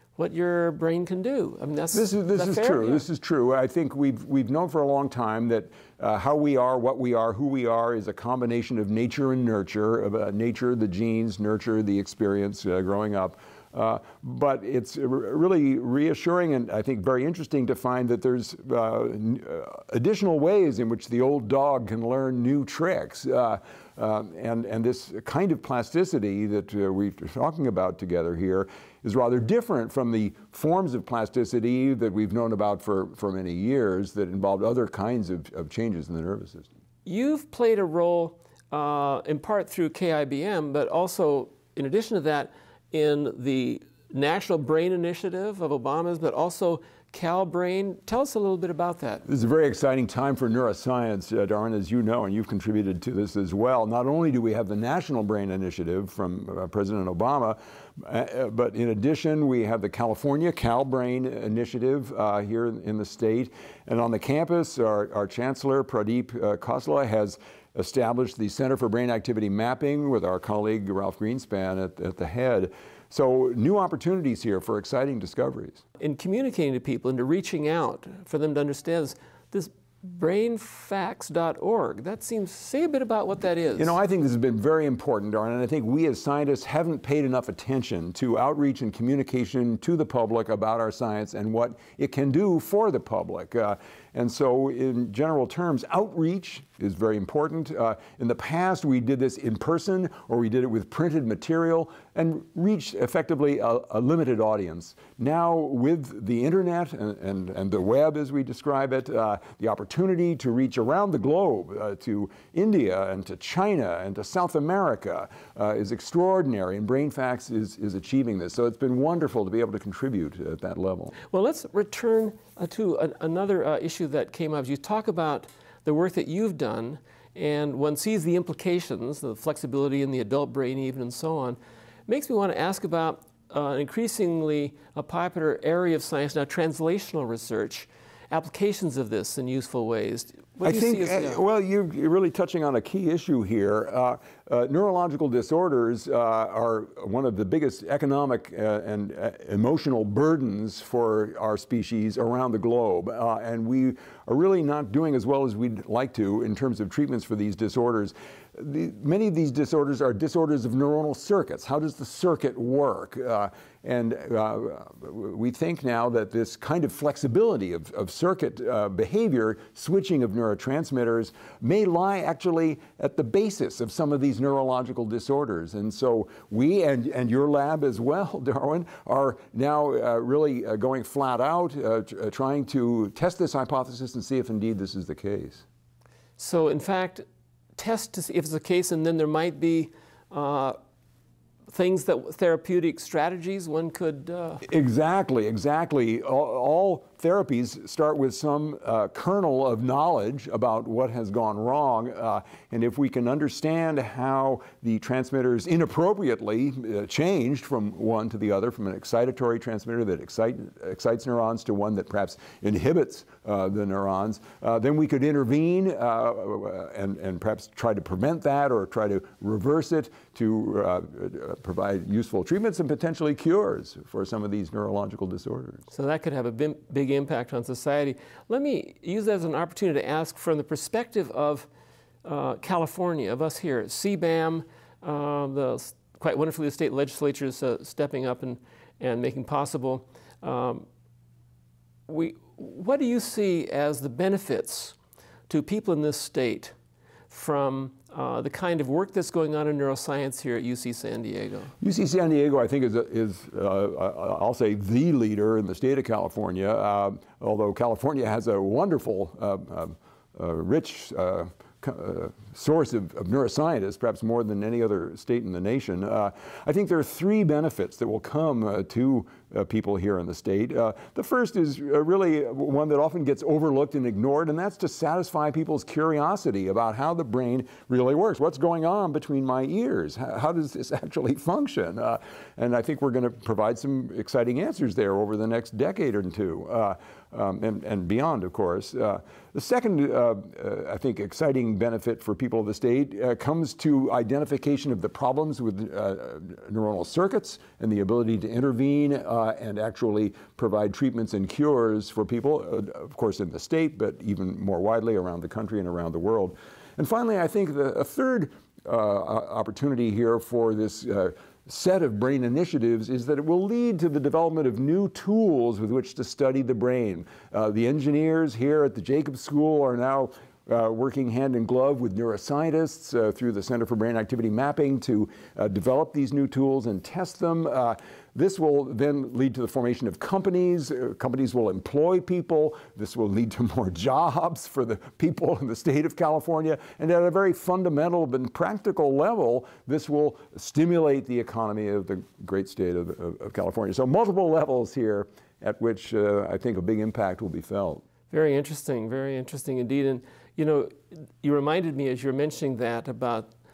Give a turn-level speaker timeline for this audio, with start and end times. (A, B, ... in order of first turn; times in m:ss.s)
0:00.2-0:03.0 A
0:01.9-0:36.7 B
0:37.0-0:49.2 A
0:49.2-1:15.8 B
1:16.0-1:24.0 A
1:23.8-2:01.1 B
2:01.3-2:21.4 A
2:20.6-3:05.6 B
3:06.4-3:07.2 A
3:07.8-3:10.8 A
3:11.7-3:14.6 A
3:14.6-3:45.8 B
3:45.9-3:51.7 A
3:52.2-4:00.8 A
4:02.1-4:05.0 A
4:05.5-4:06.7 A
4:07.3-4:11.7 A
4:11.8-5:48.0 B
5:48.3-5:53.5 A